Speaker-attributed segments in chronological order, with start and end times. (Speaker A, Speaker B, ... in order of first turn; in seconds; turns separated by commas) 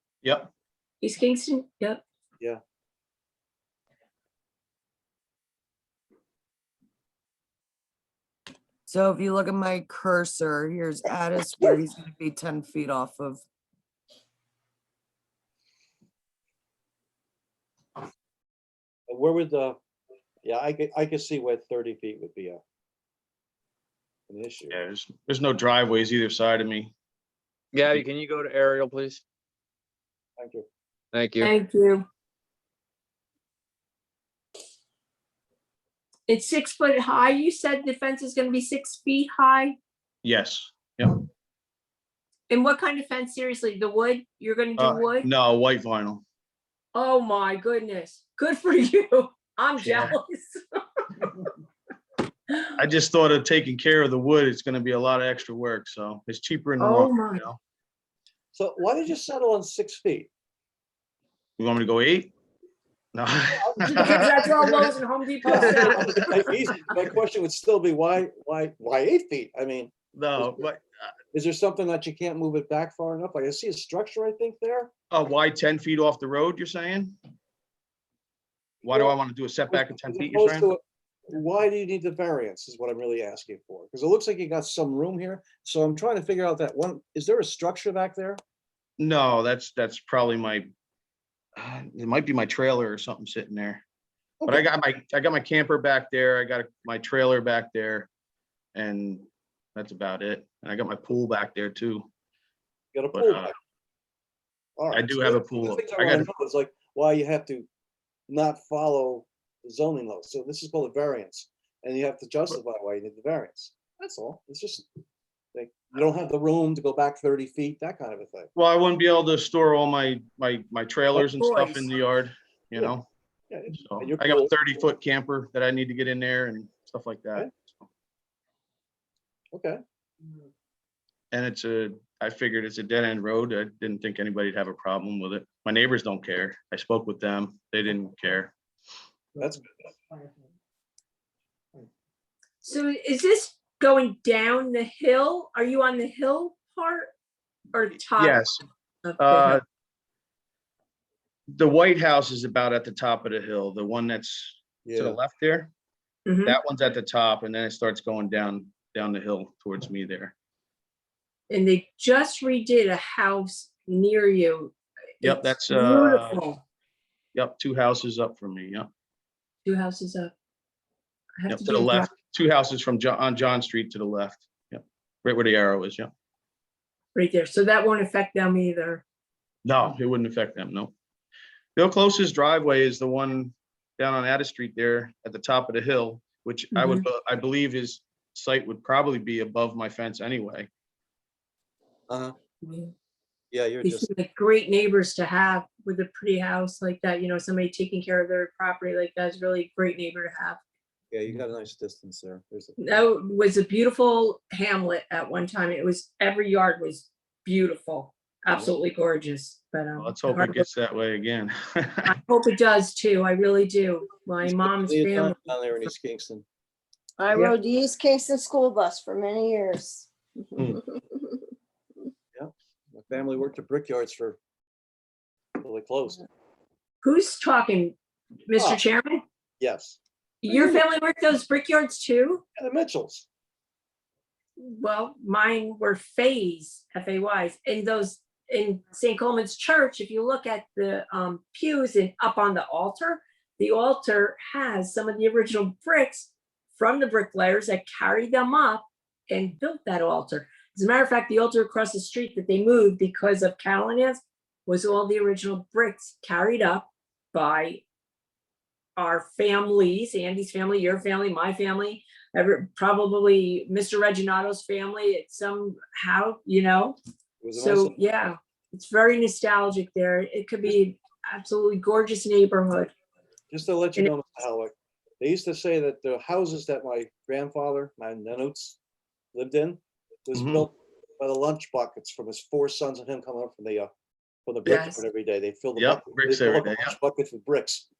Speaker A: 0.2-0.5, Speaker B: 1.0-2.0, Speaker C: 8.9-13.4, Speaker D: 19.1-19.8, Speaker D: 20.4-22.6, Speaker D: 24.3-24.8, Speaker A: 24.7-26.9, Speaker E: 27.7-29.2, Speaker D: 30.4-30.7, Speaker E: 31.1-31.5, Speaker B: 31.4-32.1, Speaker B: 36.3-39.8, Speaker A: 40.2-41.2, Speaker B: 42.5-45.3, Speaker A: 44.8-46.2, Speaker B: 46.9-51.5, Speaker A: 49.8-50.1, Speaker A: 52.8-57.6, Speaker B: 56.8-57.4, Speaker D: 58.5-60.3, Speaker A: 61.6-62.3, Speaker A: 63.1-64.9, Speaker D: 63.8-64.3, Speaker B: 63.8-66.3, Speaker D: 65.5-70.6, Speaker A: 65.5-66.4, Speaker A: 70.1-70.8, Speaker D: 71.3-74.9, Speaker A: 75.1-77.2, Speaker A: 78.8-80.7, Speaker D: 79.7-88.4, Speaker A: 89.0-90.7, Speaker A: 91.6-93.8, Speaker A: 94.5-98.1, Speaker A: 98.8-102.1, Speaker D: 102.9-103.5, Speaker A: 103.1-103.5, Speaker D: 104.8-107.7, Speaker A: 104.9-106.3, Speaker D: 108.3-114.9, Speaker D: 115.5-118.5, Speaker A: 118.6-123.1, Speaker B: 121.2-121.9, Speaker D: 123.5-124.8, Speaker A: 123.7-127.5, Speaker D: 129.5-129.8, Speaker A: 131.3-138.5, Speaker D: 139.4-139.7, Speaker B: 142.6-147.1, Speaker B: 147.7-148.5, Speaker A: 148.2-148.6, Speaker B: 149.0-149.6, Speaker A: 149.2-149.6, Speaker A: 151.5-155.7, Speaker D: 154.8-155.2, Speaker B: 156.3-156.6, Speaker A: 156.4-160.3, Speaker B: 161.5-166.6, Speaker A: 165.2-166.4, Speaker A: 167.3-168.9, Speaker B: 169.7-170.3, Speaker B: 171.4-172.1, Speaker A: 171.5-176.1, Speaker B: 177.2-179.0, Speaker A: 179.7-180.9, Speaker A: 181.8-190.7, Speaker B: 186.7-187.1, Speaker D: 192.1-192.3, Speaker B: 192.6-192.9, Speaker D: 193.5-194.1, Speaker B: 193.8-200.6, Speaker D: 201.1-203.1, Speaker B: 202.8-210.7, Speaker A: 210.0-212.1, Speaker B: 212.1-215.9, Speaker D: 214.4-216.4, Speaker F: 217.2-220.8, Speaker A: 220.6-220.8, Speaker D: 222.3-224.4, Speaker D: 225.6-226.2, Speaker B: 227.0-228.0, Speaker B: 228.5-229.2, Speaker D: 228.6-228.8, Speaker D: 229.6-230.0, Speaker B: 230.4-232.4, Speaker D: 232.6-233.3, Speaker B: 234.6-257.8, Speaker B: 259.0-267.0, Speaker D: 267.4-268.0, Speaker B: 267.6-272.9, Speaker D: 273.5-278.8, Speaker D: 279.3-283.9, Speaker A: 280.3-280.7, Speaker D: 284.5-287.9, Speaker B: 284.6-285.0, Speaker A: 285.8-287.0